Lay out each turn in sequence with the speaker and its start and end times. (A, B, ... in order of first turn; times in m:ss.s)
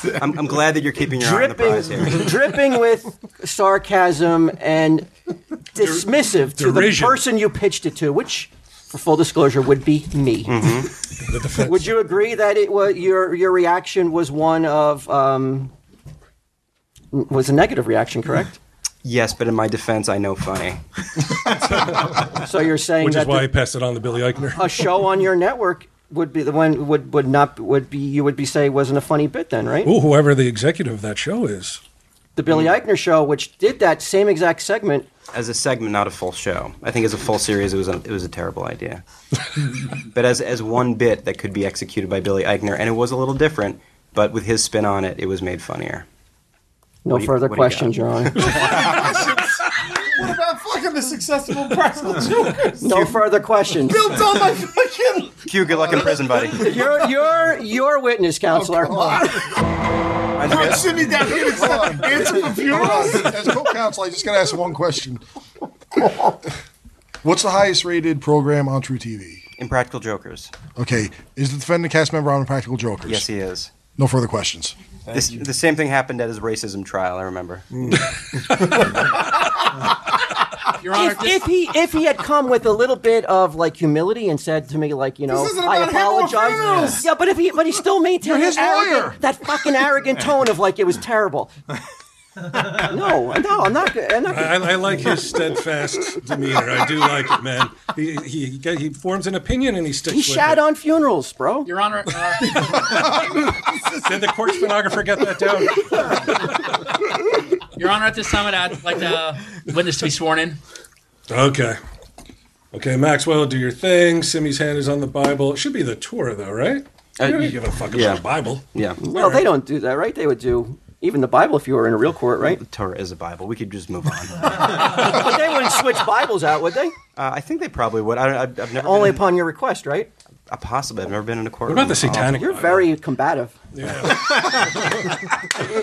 0:00.1-0:02.2 A
0:01.2-0:05.1 B
0:05.7-0:10.6 B
0:05.8-0:07.2 C
0:10.4-0:10.9 A
0:11.3-0:12.0 C
0:11.6-0:15.7 B
0:17.1-0:18.6 B
0:19.0-0:20.8 A
0:22.4-0:23.5 B
0:23.0-0:24.8 C
0:24.6-0:29.9 B
0:29.8-0:31.8 C
0:32.4-0:35.1 B
0:35.3-0:39.0 A
0:40.1-0:46.0 A
0:47.0-0:48.6 B
0:47.1-0:48.9 A
0:48.4-0:53.2 D
0:52.8-0:54.0 B
0:53.8-0:56.4 D
0:55.4-0:56.8 A
0:56.5-0:59.2 B
0:58.6-0:59.5 D
1:00.4-1:01.1 A
1:00.4-1:03.4 D
1:00.6-1:00.8 E
1:01.4-1:05.2 E
1:07.2-1:09.4 E
1:09.6-1:10.5 A
1:10.7-1:13.3 E
1:13.0-1:13.7 A
1:14.0-1:14.7 E
1:15.1-1:15.4 D
1:15.1-1:17.7 A
1:20.8-1:21.5 F
1:20.9-1:31.5 B
1:25.3-1:27.1 D
1:28.4-1:29.1 D
1:32.7-1:35.1 B
1:34.3-1:40.6 C
1:40.1-1:41.7 B
1:41.6-1:42.8 F
1:42.5-1:43.2 C
1:44.0-1:46.7 C
1:47.8-1:50.6 F
1:51.3-1:51.8 C
1:52.7-1:59.4 C
1:57.2-1:59.0 A
1:59.0-2:02.6 B
2:02.6-2:05.1 A
2:04.8-2:06.9 B
2:07.2-2:09.2 A
2:08.8-2:10.1 B
2:10.5-2:12.4 A
2:11.7-2:12.9 C
2:12.3-2:13.5 B
2:13.7-2:15.2 C